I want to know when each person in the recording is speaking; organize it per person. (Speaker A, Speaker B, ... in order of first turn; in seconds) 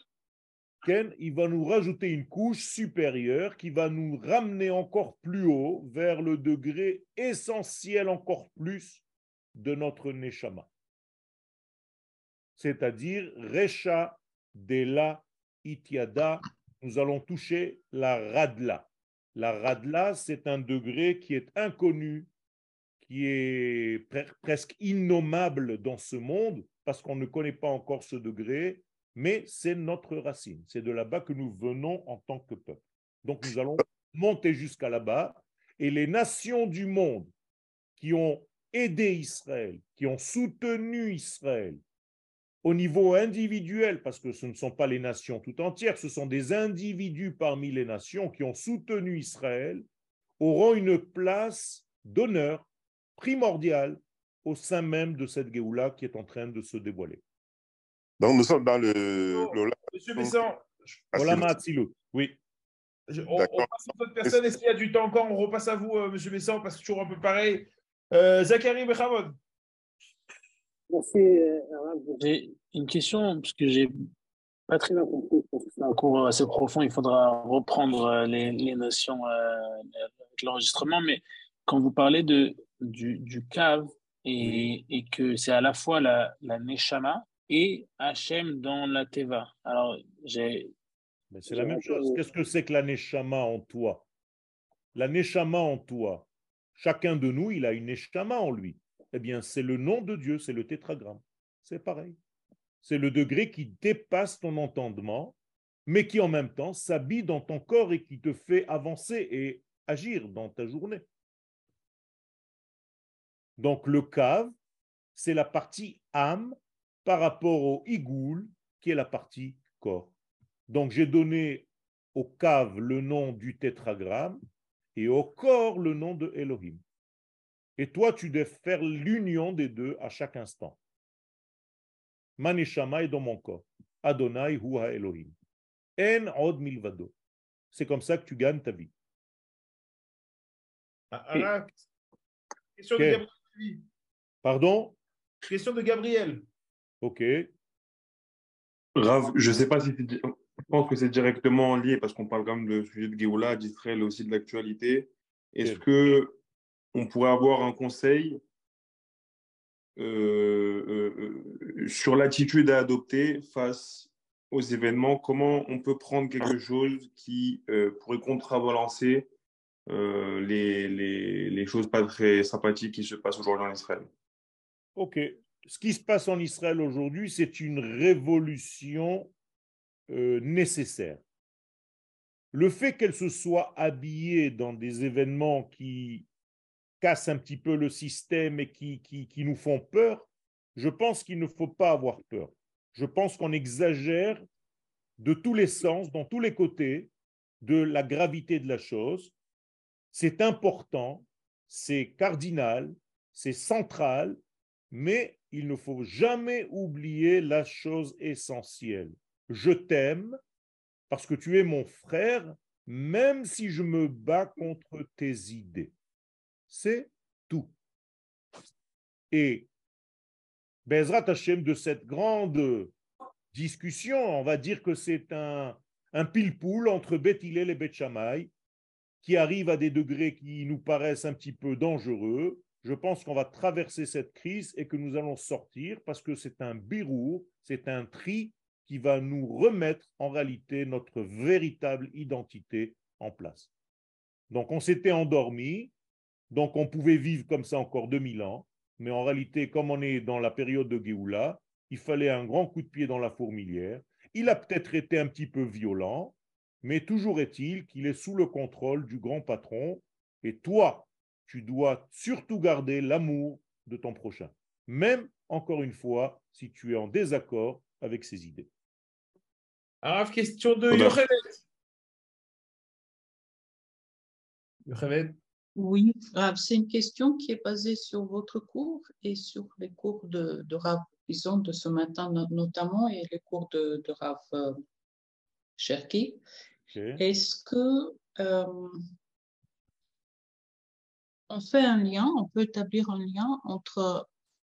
Speaker A: 0.8-9.0, 9.6-10.7, 12.6-22.3, 23.0-37.3, 38.0-41.8, 42.6-49.9, 50.4-57.2, 61.1-62.4, 91.3-94.0, 95.0-102.2, 102.8-105.3, 105.9-111.0, 113.6-114.5, 115.2-120.1, 120.7-124.4, 125.0-126.8, 127.8-130.8, 132.4-135.3, 136.0-137.1, 137.7-138.9, 143.0-143.2, 144.4-145.0, 147.0-147.5, 175.0-179.3, 180.1-181.2, 182.5-186.3, 187.0-194.4, 195.2-197.1, 197.6-199.3, 200.1-204.4, 204.9-210.4, 211.1-215.9, 216.7-217.7, 219.3-219.7, 220.9-222.9, 223.5-228.5, 229.2-243.7, 244.5-245.9, 246.5-268.7, 286.9-287.2
Speaker B: 58.2-60.5, 61.1-61.5, 63.4-63.7
Speaker C: 59.3-60.8, 63.1-69.4, 141.1-141.8, 142.8-143.8, 145.4-146.4, 270.0-271.6, 274.9-275.4
Speaker D: 70.9-74.1, 74.7-90.7, 91.5-92.2
Speaker E: 149.0-156.4, 156.9-158.4, 160.0-169.3, 169.9-174.1
Speaker F: 275.8-284.8, 285.8-286.4, 287.2-289.0, 291.5-294.3